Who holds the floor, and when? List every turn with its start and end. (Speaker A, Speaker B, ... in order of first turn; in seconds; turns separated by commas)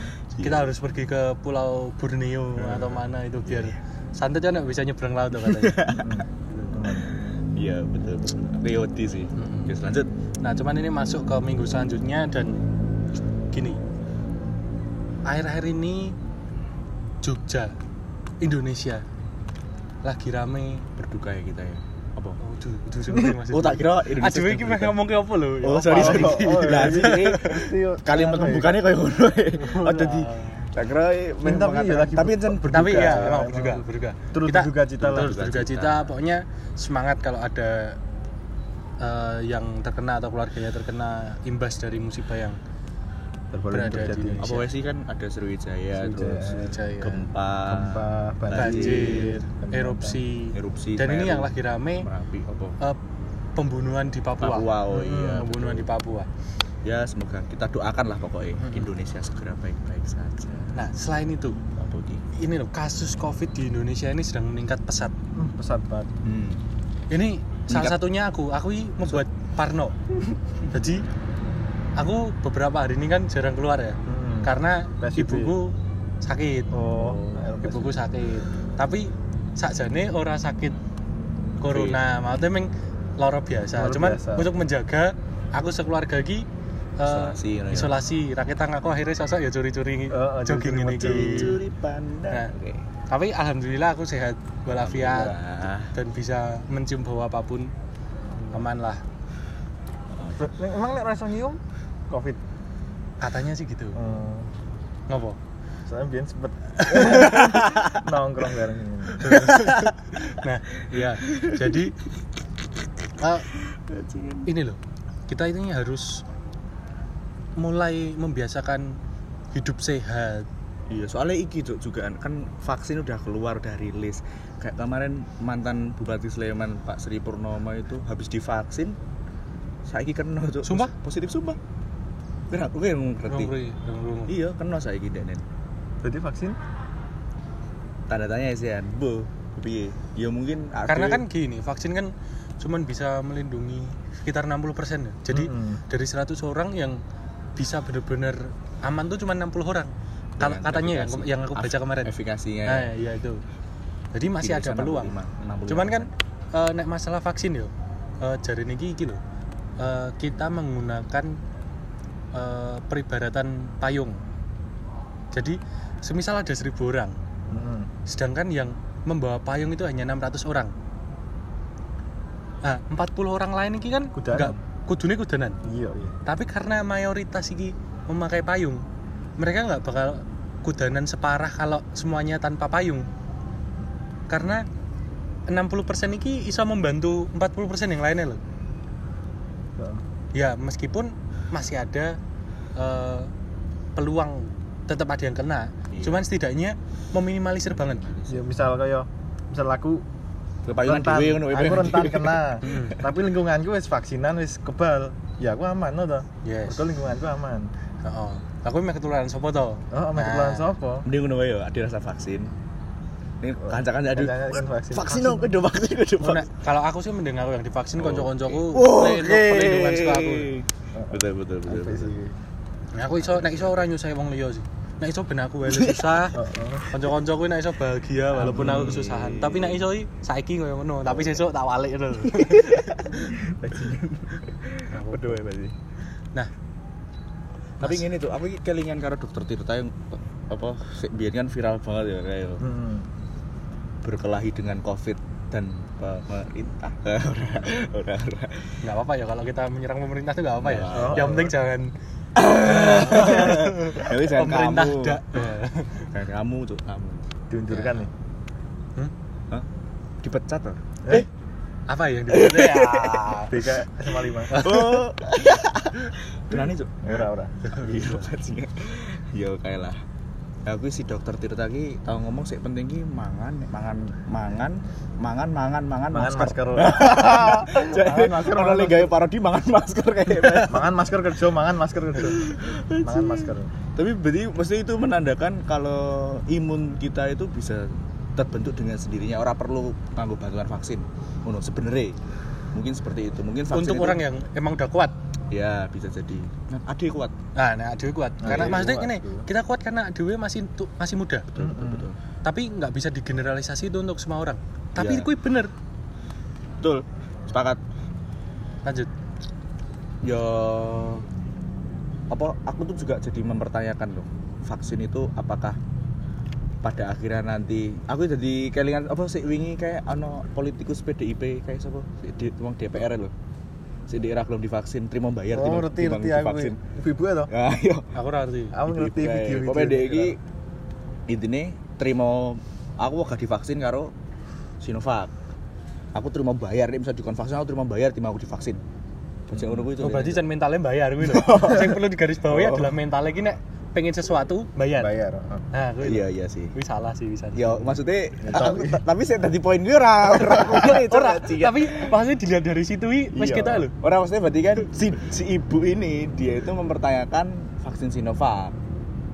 Speaker A: 0.4-0.7, Speaker B: 0.4-5.8, Speaker A: 2.6-3.7, Speaker A: 5.4-6.2, Speaker C: 6.0-7.1, Speaker B: 6.5-6.8, Speaker A: 6.9-10.1, Speaker B: 9.3-9.8, Speaker B: 10.4-12.7, Speaker B: 13.5-13.8, Speaker B: 15.2-16.2, Speaker B: 17.2-17.7, Speaker B: 18.4-19.1, Speaker B: 20.0-20.9, Speaker A: 21.0-22.4, Speaker B: 22.4-27.5, Speaker A: 23.1-25.0, Speaker A: 25.6-33.4, Speaker C: 25.9-28.8, Speaker B: 29.6-30.7, Speaker C: 31.4-35.3, Speaker B: 32.7-38.0, Speaker A: 35.0-36.1, Speaker B: 39.0-42.6, Speaker C: 43.5-44.6, Speaker B: 43.7-44.7, Speaker A: 44.4-49.4, Speaker C: 46.0-46.6, Speaker B: 46.4-47.3, Speaker C: 47.7-50.2, Speaker B: 48.6-52.1, Speaker A: 50.5-52.8, Speaker B: 53.6-54.7, Speaker A: 54.4-55.9, Speaker C: 54.9-55.5, Speaker B: 55.4-56.3, Speaker A: 56.9-60.7, Speaker C: 58.6-58.9, Speaker B: 60.8-61.6, Speaker A: 61.8-62.2, Speaker B: 62.3-65.1, Speaker C: 65.3-66.1, Speaker A: 66.2-66.6, Speaker B: 67.1-70.0, Speaker A: 67.7-68.0, Speaker B: 70.7-71.0, Speaker B: 72.0-76.7, Speaker C: 74.1-75.5, Speaker C: 76.7-78.0, Speaker A: 77.0-77.5, Speaker B: 77.6-80.8, Speaker B: 81.6-86.5, Speaker A: 81.7-82.0, Speaker C: 83.8-84.5, Speaker B: 87.0-91.6, Speaker A: 87.1-88.0, Speaker C: 90.1-91.6, Speaker A: 91.0-92.8, Speaker B: 93.1-95.4, Speaker A: 94.7-95.9, Speaker B: 95.9-97.7, Speaker C: 98.3-98.6, Speaker B: 98.5-99.0, Speaker A: 100.2-100.5, Speaker C: 100.4-102.4, Speaker B: 103.2-104.0, Speaker C: 104.0-104.5, Speaker B: 105.1-105.4, Speaker C: 105.9-109.4, Speaker B: 106.8-107.4, Speaker A: 107.1-108.0, Speaker B: 109.2-112.0, Speaker A: 109.3-109.9, Speaker A: 111.0-111.8, Speaker B: 113.2-113.5, Speaker A: 113.7-114.5, Speaker B: 114.5-116.2, Speaker B: 117.6-119.0, Speaker B: 119.5-120.5, Speaker A: 120.9-129.0, Speaker A: 129.9-131.6, Speaker B: 130.7-130.9, Speaker A: 132.5-133.5, Speaker B: 133.3-134.3, Speaker A: 134.3-135.4, Speaker C: 136.0-136.6, Speaker A: 138.1-141.2, Speaker B: 140.9-147.0, Speaker C: 145.3-145.8, Speaker B: 147.6-152.2, Speaker A: 150.4-152.9, Speaker B: 152.7-153.4, Speaker B: 154.1-155.2, Speaker A: 154.4-156.1, Speaker B: 155.7-157.7, Speaker B: 158.2-159.2, Speaker B: 159.8-161.4, Speaker B: 162.3-164.2, Speaker B: 165.3-167.2, Speaker C: 167.5-167.9, Speaker B: 168.1-170.7, Speaker B: 172.6-175.6, Speaker C: 174.2-174.6, Speaker C: 175.7-176.2, Speaker B: 176.3-178.8, Speaker B: 179.4-183.1, Speaker B: 184.3-184.7, Speaker B: 185.5-188.4, Speaker C: 189.8-190.0, Speaker B: 190.3-192.2, Speaker B: 192.8-193.3, Speaker B: 194.0-198.1, Speaker A: 195.9-196.2, Speaker A: 197.7-198.5, Speaker C: 198.3-200.1, Speaker A: 200.7-202.9, Speaker C: 200.8-207.7, Speaker B: 202.6-203.0, Speaker B: 206.4-206.8, Speaker B: 208.0-210.7, Speaker C: 209.9-211.1, Speaker A: 211.1-212.5, Speaker A: 213.4-216.5, Speaker C: 213.7-215.5, Speaker B: 216.2-220.5, Speaker A: 218.0-222.1, Speaker C: 220.9-222.3, Speaker B: 223.0-226.4, Speaker A: 223.2-223.9, Speaker A: 225.7-226.2, Speaker C: 226.3-226.8, Speaker B: 226.9-233.5, Speaker A: 228.4-229.8, Speaker C: 228.4-228.9, Speaker A: 231.1-231.4, Speaker A: 232.3-235.8, Speaker B: 234.9-235.4, Speaker A: 237.8-242.6, Speaker C: 242.6-243.1, Speaker A: 244.0-248.8, Speaker B: 248.8-251.9, Speaker A: 250.6-251.4, Speaker C: 250.9-251.5, Speaker A: 252.4-255.2, Speaker B: 252.5-256.1, Speaker A: 256.1-257.3, Speaker C: 257.5-258.1, Speaker A: 260.2-261.3, Speaker B: 261.9-263.8, Speaker A: 262.3-263.3, Speaker C: 263.5-264.6, Speaker B: 264.5-265.0, Speaker A: 264.5-267.2, Speaker C: 266.5-267.5, Speaker B: 267.7-268.2, Speaker A: 267.8-270.0, Speaker A: 270.7-280.9, Speaker C: 276.1-279.1, Speaker C: 280.7-283.7, Speaker A: 282.2-292.2, Speaker A: 292.7-294.2, Speaker B: 293.7-295.1, Speaker A: 295.5-297.3, Speaker B: 297.6-301.5, Speaker C: 298.4-299.4, Speaker A: 298.5-298.9, Speaker A: 301.5-302.2, Speaker C: 301.6-302.1, Speaker B: 302.4-305.7, Speaker A: 305.0-305.3, Speaker A: 306.8-307.8, Speaker B: 308.9-309.1, Speaker A: 310.2-311.3, Speaker A: 312.3-315.8, Speaker A: 316.8-323.3, Speaker A: 324.1-326.8, Speaker C: 325.5-327.5, Speaker A: 327.5-328.1, Speaker B: 328.1-328.8, Speaker C: 328.7-330.4, Speaker A: 328.8-330.4, Speaker A: 331.3-334.1, Speaker A: 334.8-335.3, Speaker A: 336.1-338.8, Speaker C: 339.5-339.9, Speaker A: 339.5-340.4, Speaker B: 340.0-345.1, Speaker A: 341.2-342.9, Speaker C: 345.0-345.6, Speaker B: 345.7-347.9, Speaker A: 346.0-346.7, Speaker A: 347.6-352.1, Speaker C: 348.4-349.0, Speaker B: 350.4-353.9, Speaker A: 353.3-358.8